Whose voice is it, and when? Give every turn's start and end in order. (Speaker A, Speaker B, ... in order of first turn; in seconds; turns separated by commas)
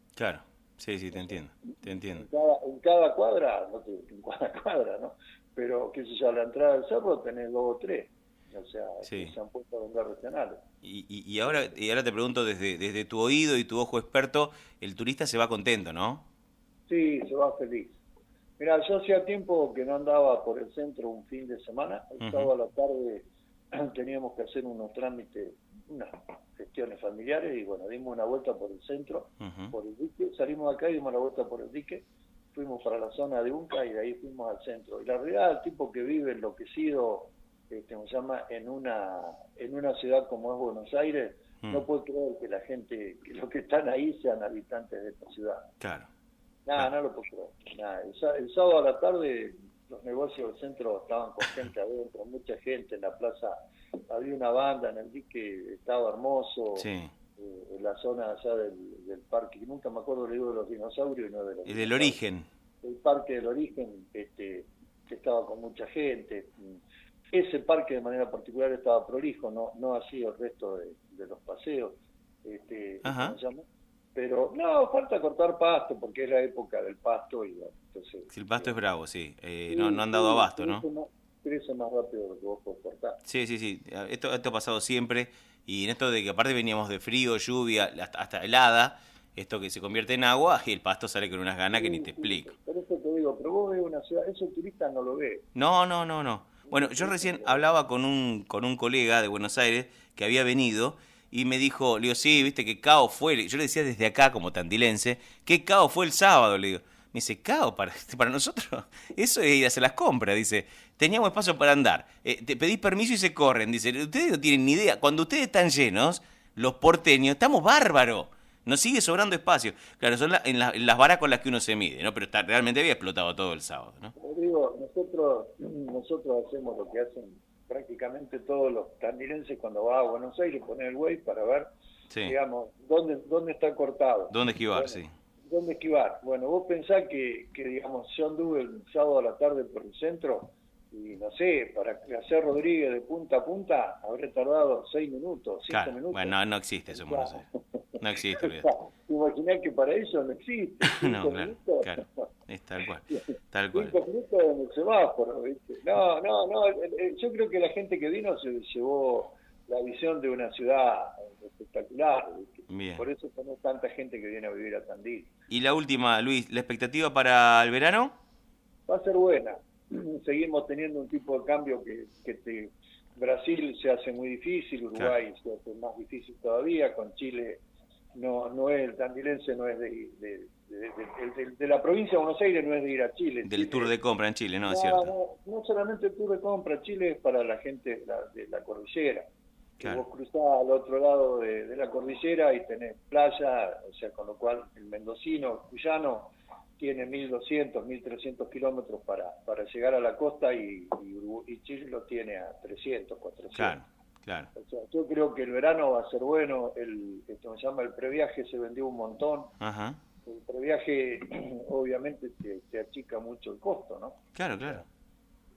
Speaker A: 0.2-2.3, Speaker B: 2.1-10.6, Speaker A: 9.1-9.3, Speaker A: 10.8-16.3, Speaker B: 16.9-18.0, Speaker B: 18.6-45.7, Speaker A: 22.2-22.5, Speaker A: 29.4-29.7, Speaker A: 45.8-46.1, Speaker B: 46.7-53.6, Speaker B: 54.1-56.9, Speaker A: 56.8-57.1, Speaker B: 57.4-62.2, Speaker A: 61.7-62.5, Speaker B: 62.8-66.8, Speaker B: 67.3-73.6, Speaker A: 73.0-73.4, Speaker B: 74.2-78.7, Speaker A: 78.3-80.8, Speaker B: 79.7-83.2, Speaker A: 83.2-92.5, Speaker B: 91.7-95.5, Speaker A: 95.5-124.1, Speaker B: 96.7-97.6, Speaker B: 124.2-131.7, Speaker B: 132.3-146.3, Speaker A: 134.3-135.1, Speaker A: 145.7-147.4, Speaker B: 146.9-152.2, Speaker A: 148.0-148.7, Speaker A: 150.8-154.0, Speaker B: 153.7-165.3, Speaker A: 162.7-163.1, Speaker A: 165.5-168.1, Speaker B: 168.9-177.6, Speaker B: 178.2-183.9, Speaker A: 183.5-185.1, Speaker B: 184.7-189.3, Speaker B: 189.8-203.8, Speaker A: 203.6-204.5, Speaker B: 204.6-209.5, Speaker A: 209.6-210.0, Speaker B: 210.3-214.8, Speaker A: 214.3-214.8